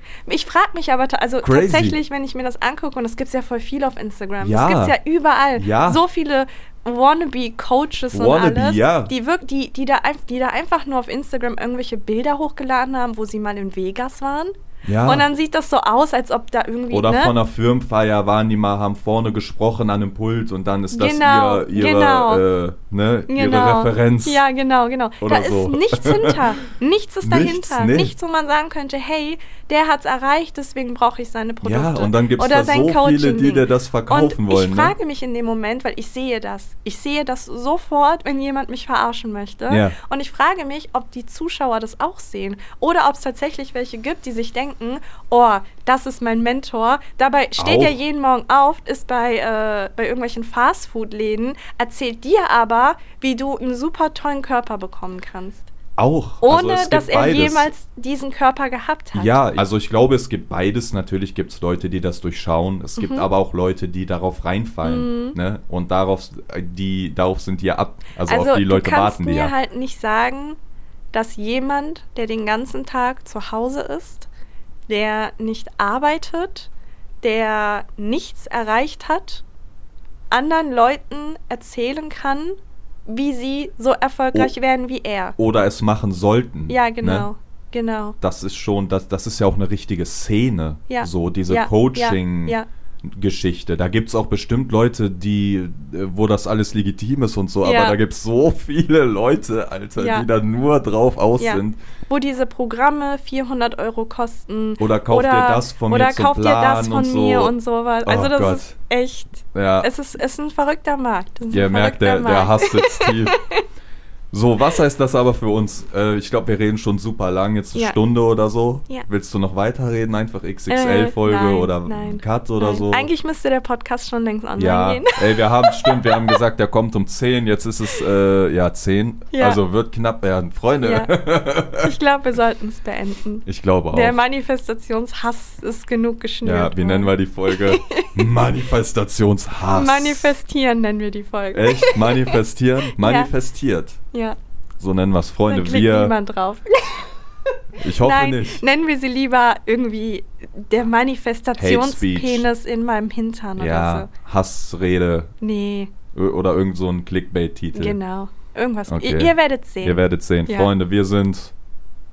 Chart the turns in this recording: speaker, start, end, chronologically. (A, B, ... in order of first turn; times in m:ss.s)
0:00.2-0:14.5 A
0:01.4-0:02.0 B
0:04.4-0:05.0 B
0:05.5-0:06.0 B
0:08.1-0:09.1 B
0:14.8-0:15.2 B
0:15.0-0:17.3 A
0:16.9-0:24.4 B
0:20.9-0:22.4 A
0:23.3-0:55.7 A
0:25.2-0:26.4 B
0:27.2-0:28.1 B
0:31.6-0:34.9 B
0:39.7-0:40.0 B
0:47.6-0:48.0 B
0:56.0-0:57.7 B
0:56.4-0:59.4 A
0:59.1-1:09.5 B
1:03.0-1:03.3 A
1:04.8-1:05.4 A
1:08.2-1:10.6 A
1:11.1-1:14.3 A
1:14.9-1:16.7 A
1:17.2-1:19.4 A
1:20.3-1:25.4 A
1:25.4-1:27.3 B
1:26.7-1:28.2 A
1:28.2-1:41.8 B
1:30.9-1:32.7 A
1:37.6-1:38.0 A
1:40.0-1:40.2 A
1:41.4-1:53.6 A
1:44.8-1:47.5 B
1:48.0-1:48.7 B
1:49.5-1:49.9 B
1:51.5-1:53.4 B
1:54.3-2:03.1 B
2:00.7-2:06.4 A
2:04.6-2:11.9 B
2:09.3-2:09.6 A
2:10.8-2:11.1 A
2:11.8-2:18.2 A
2:13.4-2:14.2 B
2:16.4-2:20.3 B
2:19.7-2:22.3 A
2:21.5-2:24.0 B
2:23.0-2:23.3 A
2:24.8-2:26.1 B
2:25.5-2:27.1 A
2:27.8-2:28.6 B
2:27.8-2:34.1 A
2:31.6-2:32.5 B
2:33.6-2:35.3 B
2:35.4-2:35.9 A
2:36.1-2:38.0 B
2:37.7-2:40.7 A
2:38.9-2:41.5 B